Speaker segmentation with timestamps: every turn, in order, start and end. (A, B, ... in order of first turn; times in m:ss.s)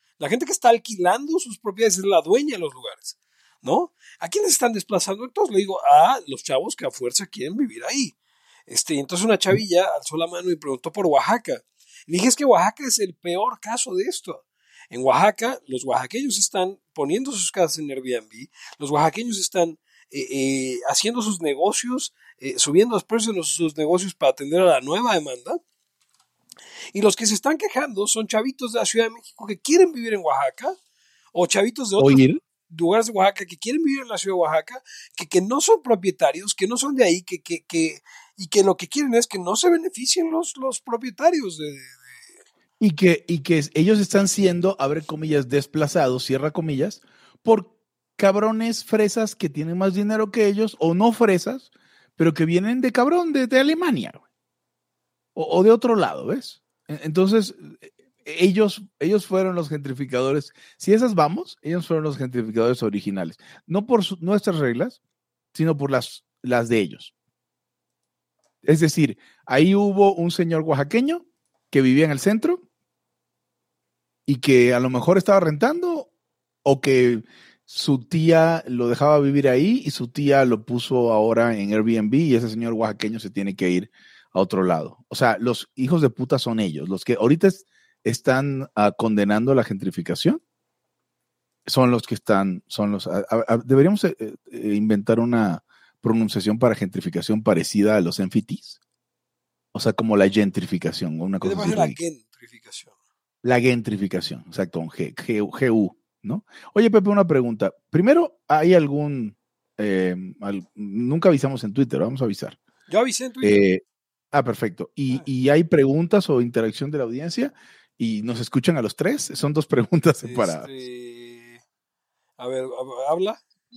0:00.2-0:08.2 A
0:08.7-0:25.6 A
0:26.9-0:30.8 A
0:31.3-0:42.0 A
0:32.0-0:32.4 B
0:42.8-0:54.2 B
0:55.3-1:05.0 B
1:05.5-1:07.1 B
1:08.6-1:12.6 B
1:14.3-1:16.1 B
1:16.6-1:30.4 B
1:31.6-1:38.8 B
1:39.7-1:42.0 B
1:41.4-1:42.9 A
1:43.4-1:52.6 B
1:52.9-1:53.7 A
1:53.4-2:00.7 B
2:00.2-2:01.6 A
2:02.4-2:03.4 A